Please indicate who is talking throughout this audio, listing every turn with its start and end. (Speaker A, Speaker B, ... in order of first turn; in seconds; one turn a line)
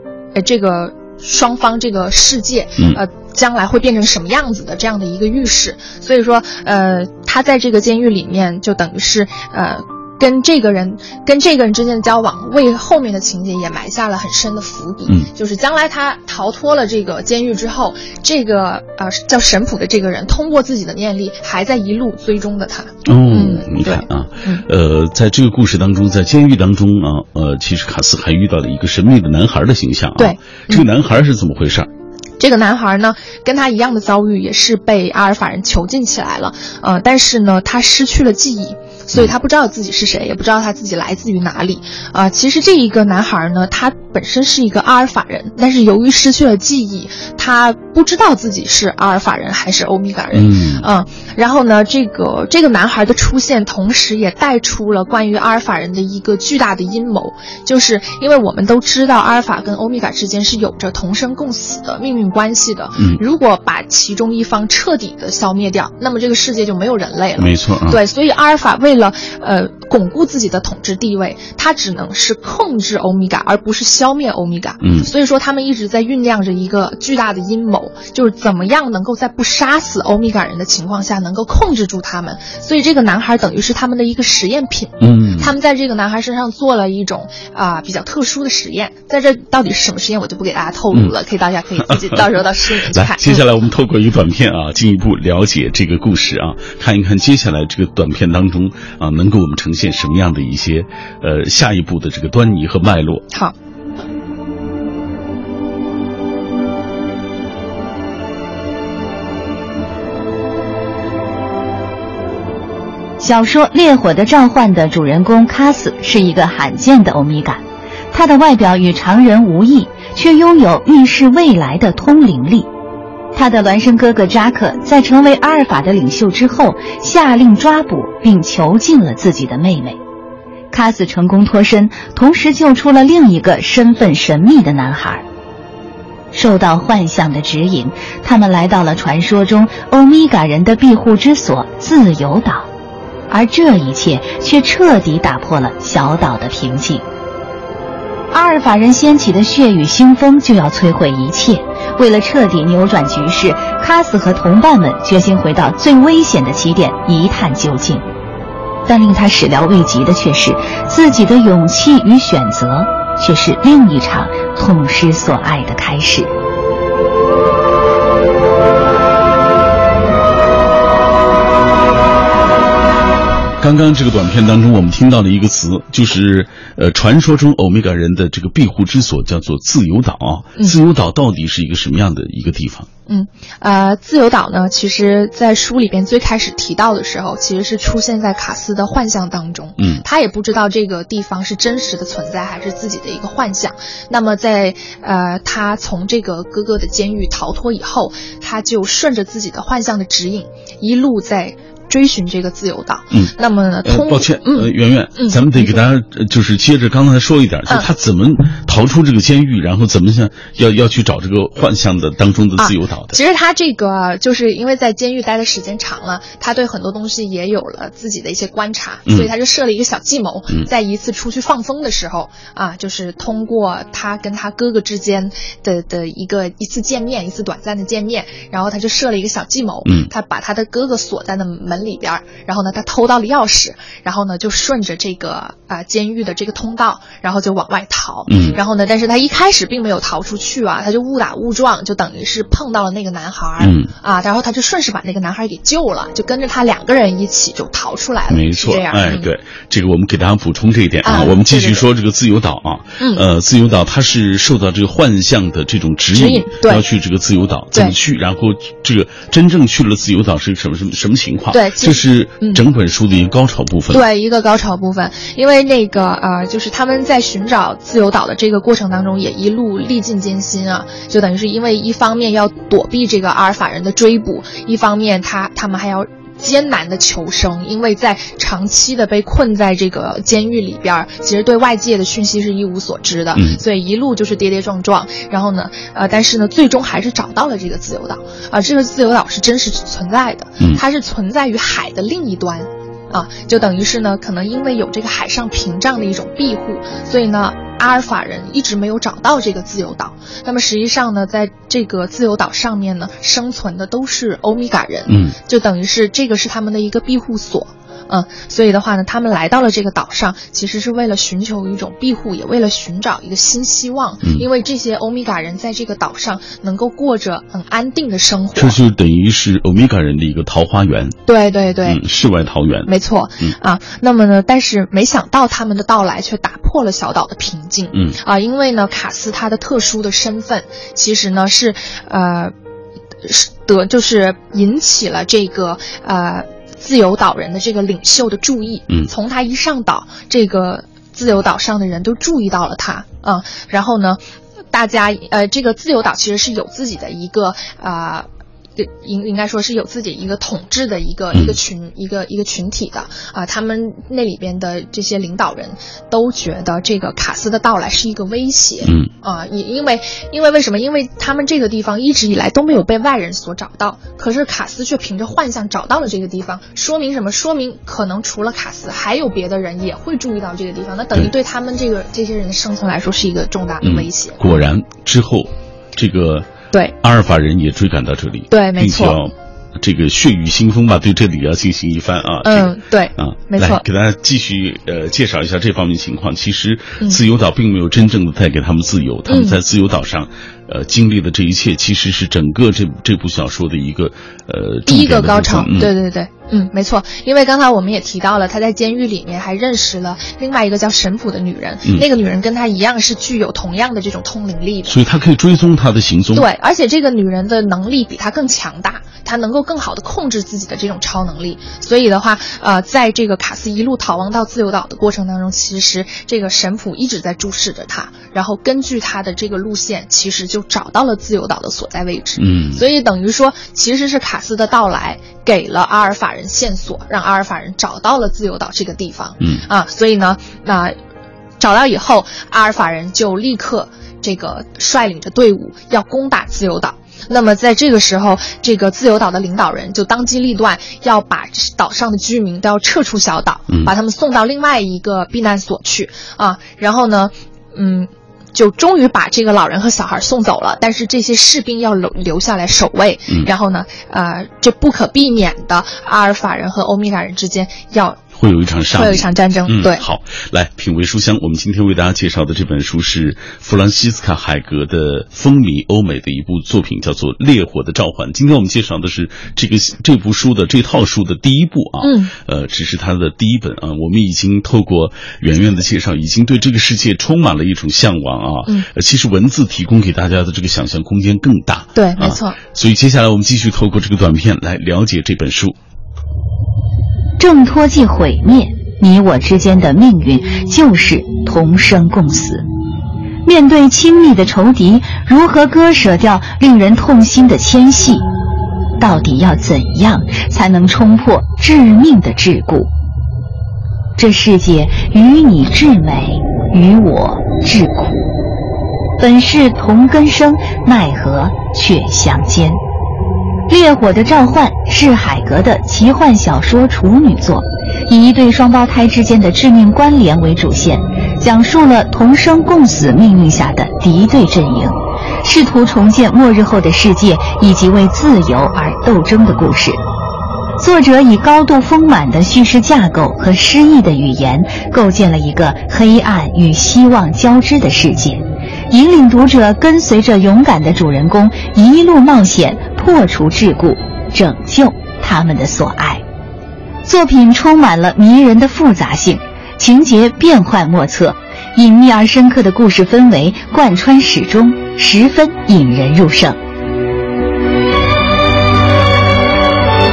Speaker A: 0.3-24.6
Speaker B: 23.0-31.9
Speaker A: 30.2-30.9
Speaker A: 32.4-93.4
Speaker B: 50.3-50.9
Speaker B: 67.4-68.0
Speaker B: 74.8-75.1
Speaker B: 85.0-85.5
Speaker B: 91.8-92.3
Speaker B: 92.9-103.3
Speaker C: 113.2-122.7
Speaker C: 123.3-130.0
Speaker C: 130.7-135.2
Speaker C: 136.3-142.7
Speaker C: 143.3-147.0
Speaker C: 148.3-158.0
Speaker C: 158.9-166.3
Speaker B: 173.6-182.9
Speaker A: 183.1-205.8
Speaker B: 203.8-213.2
Speaker A: 212.6-249.3
Speaker B: 229.8-230.1
Speaker B: 238.3-238.6
Speaker B: 243.6-243.9
Speaker B: 248.3-264.0
Speaker A: 251.0-251.8
Speaker A: 256.1-256.8
Speaker A: 261.5-262.6
Speaker A: 263.9-318.8
Speaker B: 283.3-283.6
Speaker B: 305.1-305.4
Speaker B: 318.5-321.2
Speaker A: 321.2-322.0
Speaker B: 321.8-322.9
Speaker A: 322.9-332.5
Speaker B: 327.9-328.2
Speaker A: 333.2-344.2
Speaker A: 344.7-348.2
Speaker A: 348.8-374.6
Speaker B: 351.3-351.6
Speaker B: 358.8-359.1
Speaker B: 373.8-376.5
Speaker B: 377.0-395.9
Speaker A: 378.5-379.2
Speaker A: 382.4-383.8
Speaker A: 389.3-389.6
Speaker A: 394.9-404.9
Speaker B: 404.9-406.5
Speaker A: 406.3-430.9
Speaker B: 422.4-422.8
Speaker A: 431.6-458.2
Speaker B: 458.4-485.8
Speaker A: 458.9-460.0
Speaker A: 472.0-472.3
Speaker A: 481.9-482.6
Speaker C: 487.4-492.6
Speaker C: 493.4-498.2
Speaker C: 499.0-502.9
Speaker C: 504.2-508.3
Speaker C: 509.2-512.8
Speaker C: 513.7-530.0
Speaker C: 530.8-546.2
Speaker C: 547.0-556.6